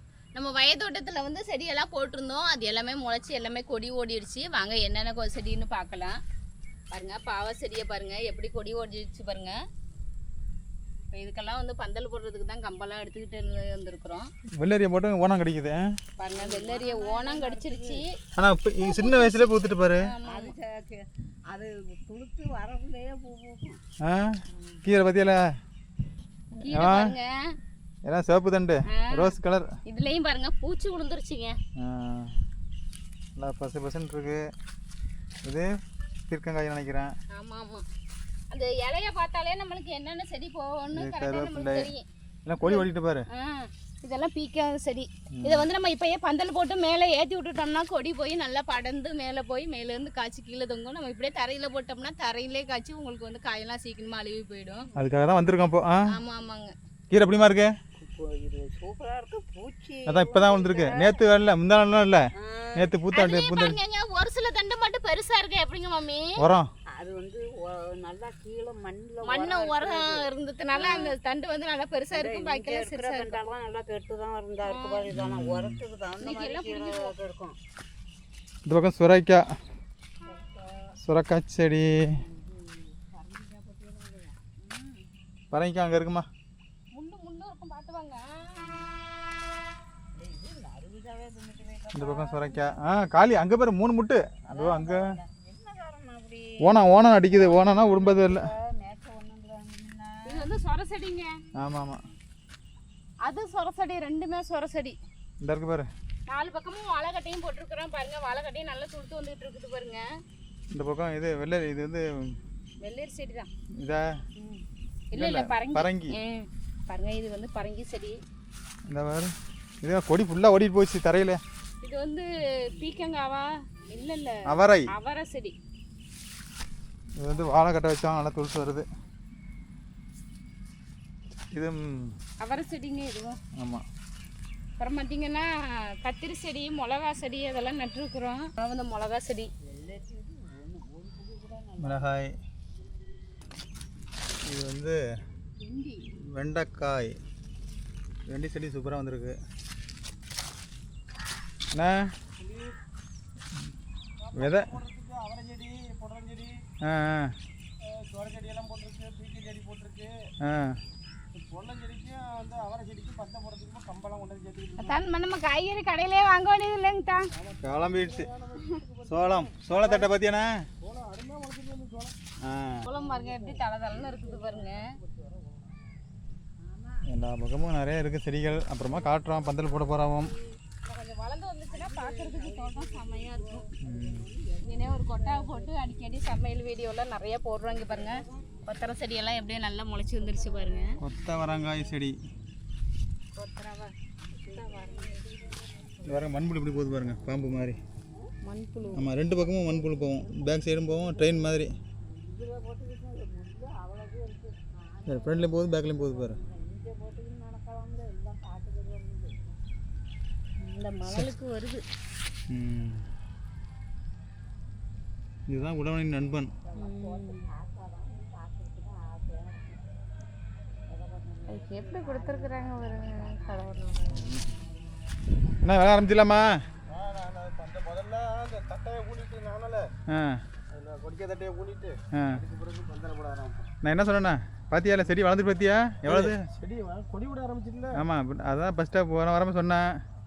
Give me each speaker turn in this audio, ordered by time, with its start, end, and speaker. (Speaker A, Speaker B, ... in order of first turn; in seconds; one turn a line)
Speaker A: 0.3-6.2
Speaker A: 6.9-9.6
Speaker A: 11.1-14.3
Speaker B: 14.6-16.0
Speaker A: 16.2-18.1
Speaker C: 16.3-18.0
Speaker B: 18.4-20.1
Speaker A: 18.8-20.5
Speaker C: 20.2-23.8
Speaker B: 24.0-25.4
Speaker C: 24.5-24.8
Speaker A: 26.6-27.5
Speaker B: 26.7-27.1
Speaker B: 28.0-29.8
Speaker A: 28.9-29.3
Speaker A: 29.9-31.6
Speaker B: 31.8-32.4
Speaker B: 33.4-34.5
Speaker B: 35.4-35.7
Speaker B: 36.3-37.1
Speaker A: 37.3-37.8
Speaker A: 38.5-42.0
Speaker B: 40.9-41.9
Speaker B: 42.5-43.2
Speaker A: 42.6-54.9
Speaker B: 45.3-45.7
Speaker B: 55.0-56.1
Speaker A: 56.1-56.7
Speaker B: 57.1-57.7
Speaker C: 58.0-61.1
Speaker B: 60.1-63.8
Speaker C: 62.4-62.9
Speaker A: 63.1-66.3
Speaker B: 66.4-66.7
Speaker C: 66.9-71.1
Speaker A: 69.2-73.4
Speaker C: 72.1-77.6
Speaker A: 74.6-75.1
Speaker B: 75.1-75.8
Speaker A: 76.2-77.1
Speaker B: 78.7-79.5
Speaker C: 80.3-80.9
Speaker B: 81.0-82.1
Speaker C: 82.2-85.0
Speaker B: 85.5-86.3
Speaker A: 86.9-88.7
Speaker C: 90.2-92.6
Speaker B: 91.9-95.0
Speaker C: 94.5-100.5
Speaker B: 96.6-98.5
Speaker A: 100.3-101.3
Speaker B: 101.5-102.0
Speaker A: 103.2-105.0
Speaker B: 105.4-105.9
Speaker A: 106.3-110.0
Speaker B: 110.7-112.4
Speaker A: 112.8-113.5
Speaker B: 113.8-114.1
Speaker A: 114.4-118.2
Speaker B: 115.1-116.2
Speaker B: 118.9-121.4
Speaker A: 121.8-125.5
Speaker B: 124.4-124.9
Speaker B: 127.2-128.9
Speaker B: 131.5-132.2
Speaker A: 132.4-133.4
Speaker B: 133.6-133.8
Speaker A: 134.8-135.5
Speaker A: 136.0-139.5
Speaker C: 139.6-142.0
Speaker B: 141.8-142.4
Speaker B: 144.4-145.0
Speaker A: 145.6-146.1
Speaker B: 146.2-147.2
Speaker B: 148.3-149.4
Speaker B: 151.7-152.1
Speaker D: 152.4-152.7
Speaker D: 154.2-156.6
Speaker B: 154.3-154.8
Speaker B: 156.8-157.3
Speaker D: 157.8-160.3
Speaker B: 160.4-160.8
Speaker D: 161.3-165.0
Speaker A: 164.8-167.3
Speaker D: 167.3-170.1
Speaker B: 167.6-168.3
Speaker B: 169.1-170.7
Speaker D: 170.8-172.1
Speaker B: 172.4-172.9
Speaker A: 172.8-174.8
Speaker C: 172.9-175.5
Speaker C: 176.6-177.0
Speaker B: 177.1-180.3
Speaker A: 180.8-183.6
Speaker C: 181.7-186.1
Speaker B: 183.8-184.3
Speaker A: 184.6-191.0
Speaker C: 187.9-188.5
Speaker C: 190.2-191.0
Speaker B: 191.0-192.2
Speaker A: 193.3-193.9
Speaker C: 194.2-196.0
Speaker A: 194.5-195.2
Speaker B: 196.0-197.8
Speaker A: 198.4-199.0
Speaker B: 198.9-201.7
Speaker C: 199.1-201.4
Speaker C: 202.0-209.5
Speaker B: 205.1-206.4
Speaker A: 210.6-211.8
Speaker B: 212.5-213.1
Speaker B: 215.5-216.5
Speaker C: 216.6-219.9
Speaker A: 216.8-217.5
Speaker C: 220.9-223.8
Speaker A: 221.5-224.3
Speaker B: 224.1-224.4
Speaker B: 225.6-226.6
Speaker D: 226.9-229.9
Speaker B: 230.1-230.4
Speaker D: 230.7-233.7
Speaker B: 232.1-232.4
Speaker B: 233.8-236.4
Speaker D: 236.0-238.0
Speaker B: 237.9-239.9